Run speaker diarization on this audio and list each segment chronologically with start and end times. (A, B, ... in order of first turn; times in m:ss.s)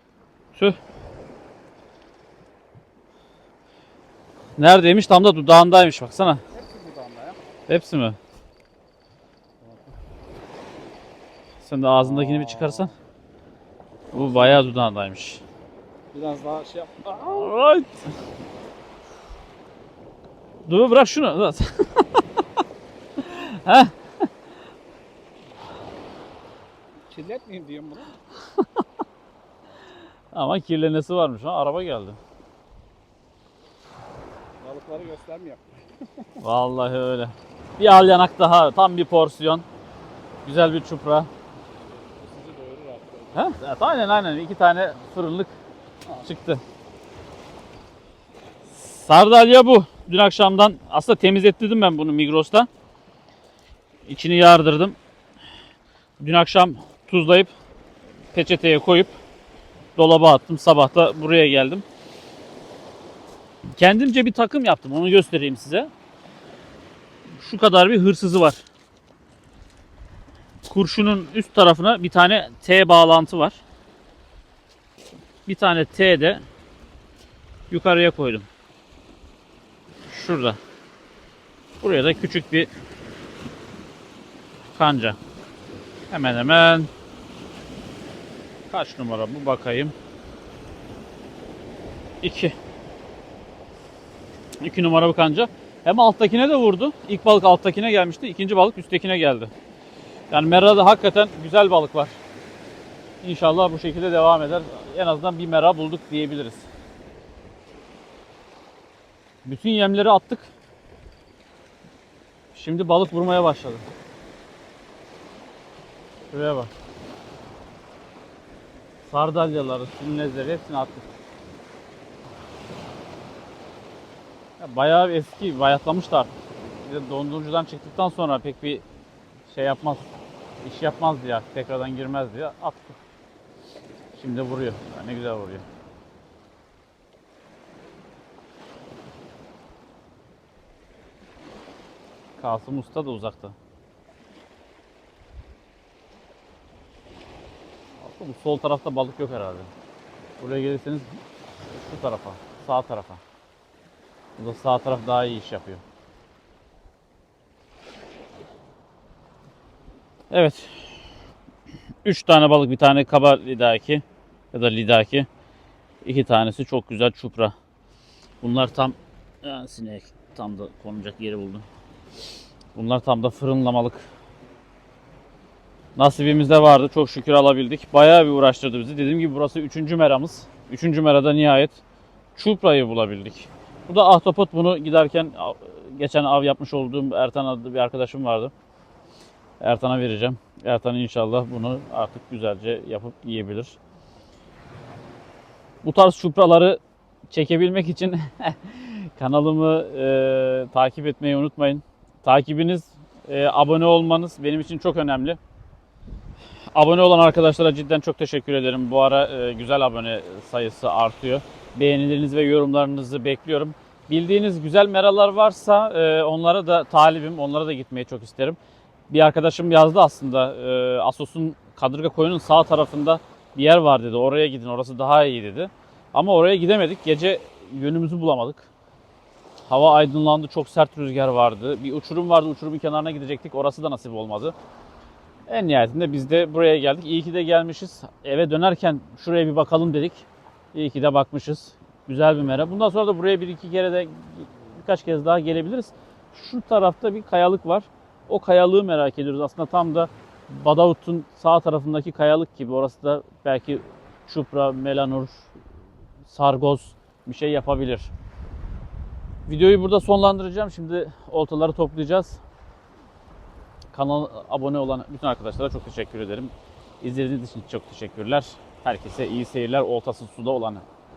0:04.6-0:06.4 A
0:06.5-0:07.4 B
0:07.7-0:08.2 A
0:09.6-0:09.9 B
0:11.6-0:12.9 A
0:12.0-0:12.9 B
0:14.1-0:14.6 B
0:14.1-0:15.4 A
0:16.1-0:17.6 B
0:17.2-0:18.1 A
0:20.6-0:22.4 A
0:23.2-0:23.9 A
0:27.1-0:28.2 B
0:30.3-0:32.2 A
0:34.6-0:36.4 B
0:36.4-0:39.6 A
0:40.4-0:41.3 A
0:41.9-0:43.4 B
0:43.3-0:45.5 A
0:46.2-0:46.6 A
0:48.7-0:52.7 A
0:54.1-0:55.0 A
0:56.2-0:57.5 A
0:58.3-0:59.1 A
1:00.0-1:01.8 A
1:03.8-1:05.9 A
1:07.3-1:08.6 A
1:10.6-1:13.6 A
1:15.4-1:16.4 A
1:17.7-1:18.5 A
1:20.1-1:20.6 A
1:21.8-1:22.7 A
1:24.7-1:25.2 A
1:26.1-1:26.9 A
1:28.7-1:29.9 A
1:32.2-1:32.5 A
1:34.6-1:39.5 A
1:40.3-1:42.2 A
1:43.2-1:46.6 A
1:49.4-1:50.5 A
1:52.5-1:53.8 A
1:56.3-1:56.7 A
1:59.1-2:01.1 A
2:04.6-2:08.8 A
2:09.5-2:10.1 A
2:10.6-2:13.0 A
2:14.1-2:15.6 A
2:22.4-2:23.5 A
2:28.0-2:29.7 A
2:30.4-2:31.1 A
2:31.7-2:33.2 A
2:34.4-2:35.8 A
2:40.3-2:41.0 A
2:42.0-2:45.3 A
2:46.0-2:47.5 A
2:48.4-2:51.6 A
2:52.8-2:54.1 A
2:56.0-3:01.8 A
3:02.4-3:08.5 A
3:09.6-3:13.8 A
3:15.8-3:16.8 A
3:17.3-3:25.4 A
3:26.7-3:38.6 A
3:39.1-3:48.7 A
3:49.7-3:54.5 A
3:55.5-4:15.5 A
4:16.2-4:18.1 A
4:19.5-4:22.4 A
4:23.9-4:30.8 A